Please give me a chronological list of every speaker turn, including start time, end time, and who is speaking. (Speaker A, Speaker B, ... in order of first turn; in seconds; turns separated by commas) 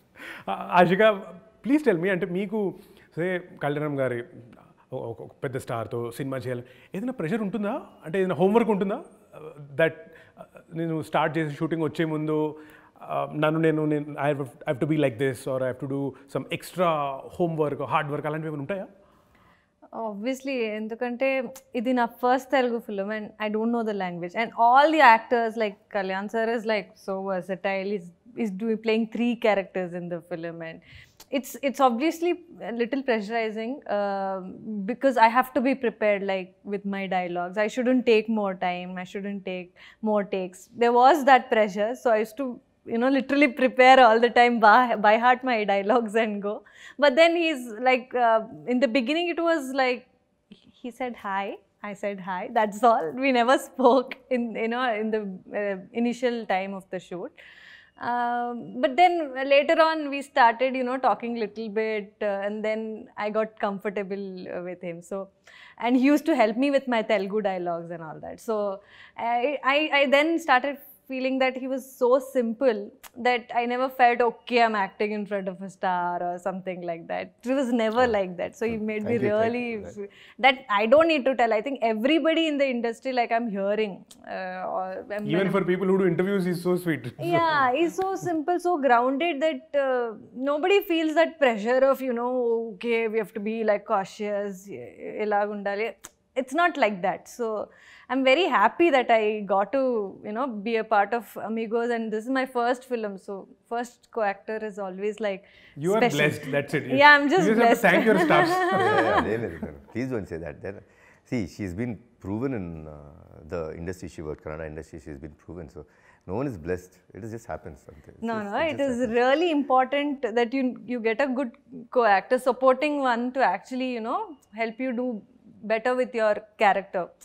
Speaker A: 0.5-4.2, Speaker A: 4.9-10.2, Speaker A: 10.7-18.9, Speaker B: 19.9-50.1, Speaker B: 50.7-57.3, Speaker B: 58.0-85.6, Speaker C: 78.7-80.0, Speaker A: 85.2-87.7, Speaker B: 87.2-109.4, Speaker A: 105.8-109.3, Speaker C: 108.8-119.2, Speaker B: 118.2-127.1